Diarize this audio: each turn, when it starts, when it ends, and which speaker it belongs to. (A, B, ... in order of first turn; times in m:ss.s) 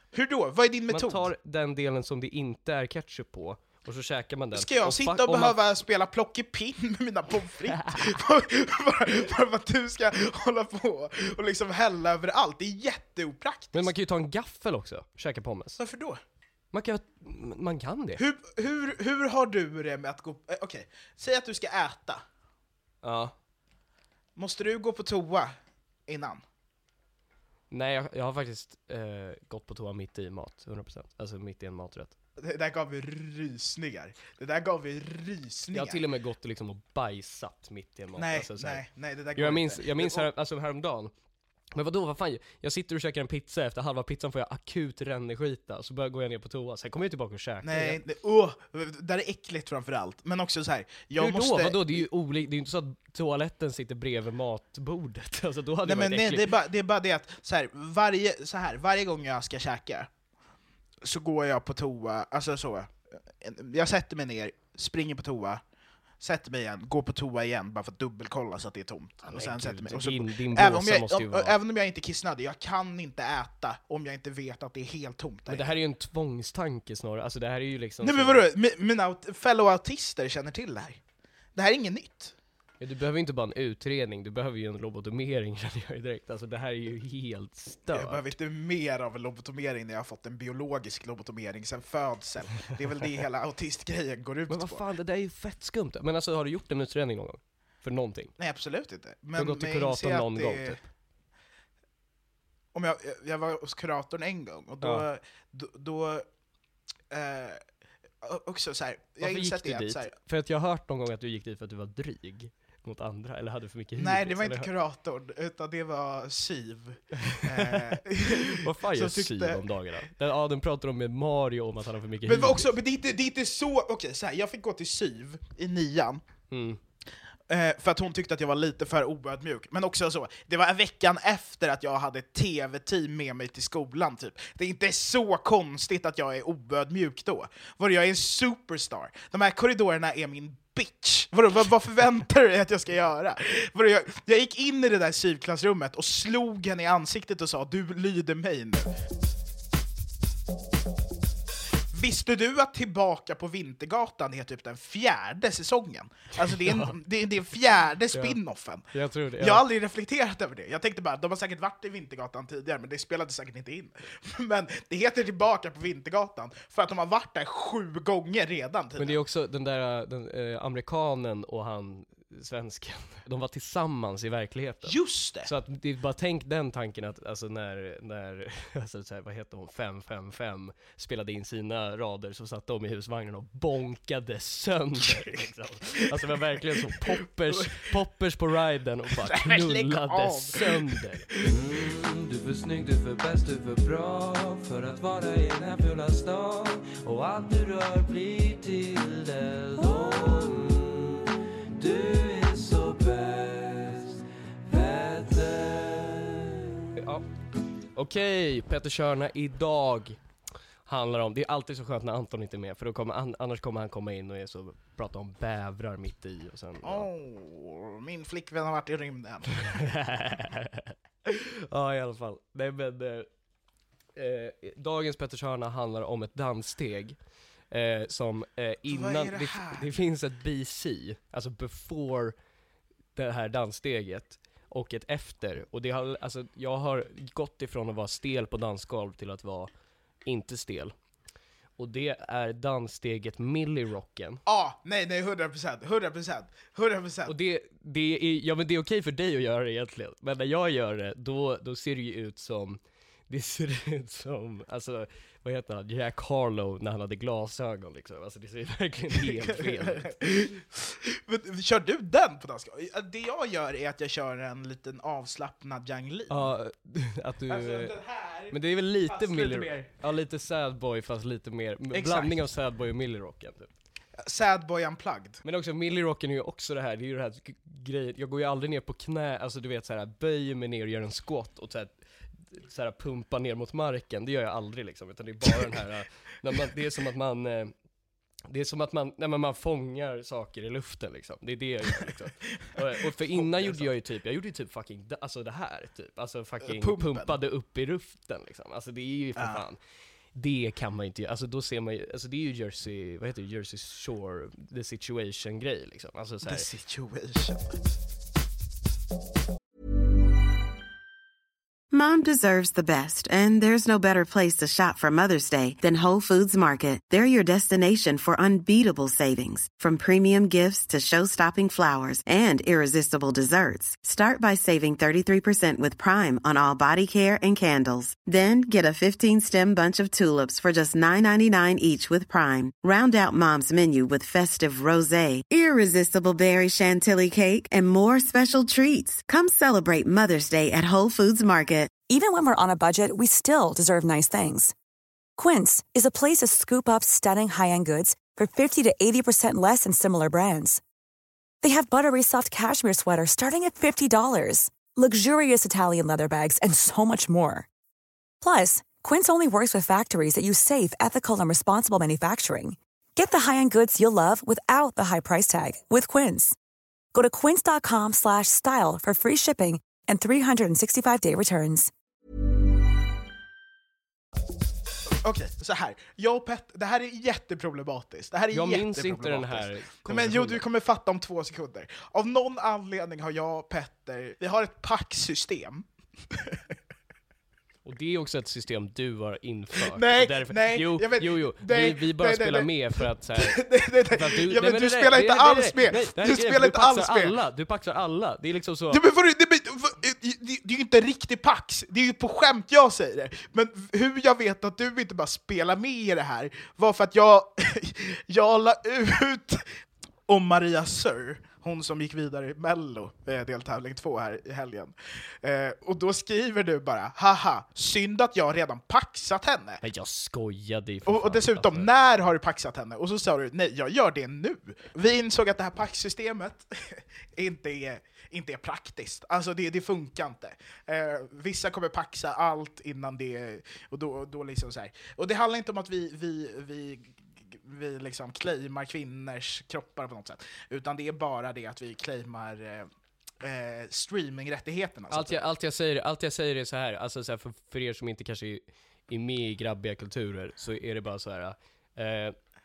0:00.1-0:01.3 A
0:00.9-0:05.6 B
0:04.5-0:13.9 A
0:07.8-0:08.1 B
0:13.7-0:15.8 B
0:15.8-0:16.2 A
0:16.7-0:18.2 B
0:18.2-0:22.2 A
0:23.0-0:23.3 B
0:24.4-0:25.5 A
0:26.1-0:26.4 A
0:27.7-0:32.2 B
0:32.4-0:36.0 A
0:35.7-0:38.8 B
0:38.2-0:40.3 A
0:39.4-0:41.1 B
0:41.7-0:48.0 B
0:47.6-0:52.0 A
0:51.2-0:56.5 B
0:55.8-1:00.1 A
1:01.0-1:05.6 A
1:06.2-1:15.7 A
1:09.2-1:11.5 B
1:15.5-1:18.4 B
1:18.0-1:21.0 A
1:21.5-1:22.3 A
1:22.8-1:28.3 B
1:27.9-1:34.8 A
1:34.5-1:38.3 B
1:38.4-1:40.8 A
1:39.4-1:40.8 B
1:42.7-1:46.2 A
1:47.1-1:47.6 A
1:48.2-1:50.1 A
1:49.2-1:54.7 B
1:54.0-1:59.6 A
1:57.3-2:02.7 B
2:02.2-2:06.2 A
2:06.5-2:06.8 B
2:07.5-2:28.9 A
2:31.9-2:38.8 A
2:36.4-2:37.0 B
2:38.1-2:38.4 B
2:38.9-2:39.6 B
2:39.4-2:49.2 A
2:49.0-3:11.2 B
2:54.8-2:55.5 A
3:05.1-3:06.0 A
3:09.2-3:11.4 A
3:11.4-3:26.6 C
3:27.0-3:27.2 B
3:27.9-3:30.2 B
3:30.8-3:37.1 B
3:36.8-3:39.9 A
3:39.7-3:43.3 B
3:44.2-3:47.2 B
3:47.7-3:52.4 B
3:48.9-3:49.9 A
3:53.1-3:59.7 B
4:00.2-4:00.9 B
4:01.8-4:04.4 B
4:04.4-4:07.3 A
4:07.2-4:20.2 B
4:19.2-4:26.5 A
4:26.3-4:27.9 B
4:27.5-4:29.9 A
4:28.5-4:33.7 B
4:31.9-4:32.4 A
4:34.2-4:35.4 A
4:35.4-4:47.7 B
4:48.5-4:59.8 B
4:52.6-4:53.9 A
4:56.6-4:57.3 A
4:59.4-4:59.6 A
5:00.3-5:06.6 B
5:06.4-5:07.8 A
5:11.9-5:41.9 D
5:42.1-5:44.7 E
5:45.4-5:50.8 E
5:51.6-5:57.7 E
5:58.4-6:06.6 E
6:07.1-6:11.9 E
6:15.1-6:26.7 A
6:18.5-6:20.6 B
6:27.8-6:39.0 B
6:29.9-6:37.4 A
6:38.9-6:49.7 A
6:50.3-6:59.8 A
6:59.8-7:01.9 B
7:01.0-7:22.9 A
7:23.4-7:25.4 A
7:25.1-7:32.4 B